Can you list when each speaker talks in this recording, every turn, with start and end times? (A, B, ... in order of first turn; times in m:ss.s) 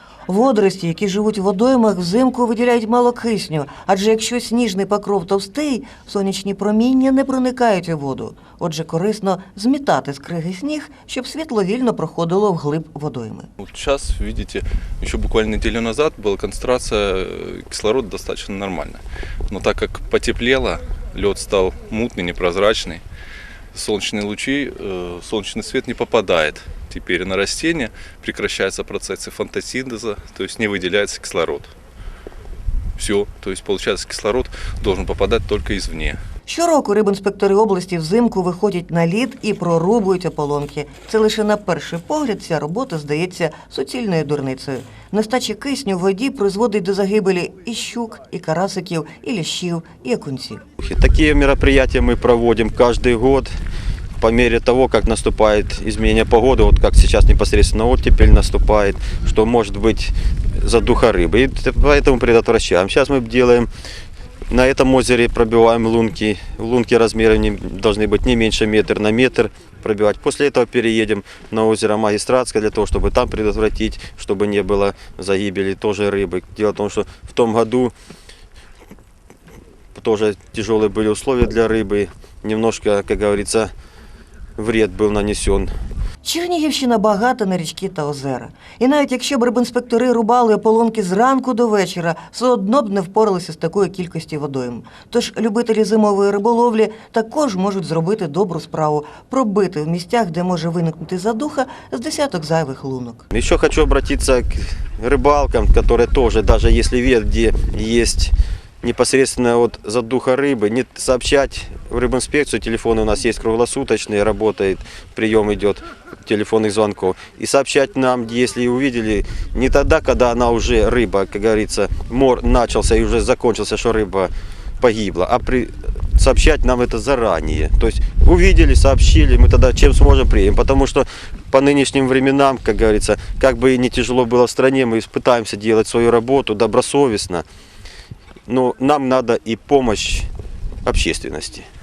0:00.3-0:13.5 A
0:13.6-0:23.0 B
0:23.7-0:31.7 B
0:33.0-0:36.2 B
0:36.5-0:50.6 A
0:50.8-0:53.5 C
0:54.2-1:03.7 C
1:04.5-1:17.9 C
1:19.9-1:23.7 C
1:24.6-1:25.7 C
1:26.2-1:43.2 A
1:43.3-2:17.4 C
2:18.5-2:20.3 C
2:20.8-2:21.6 C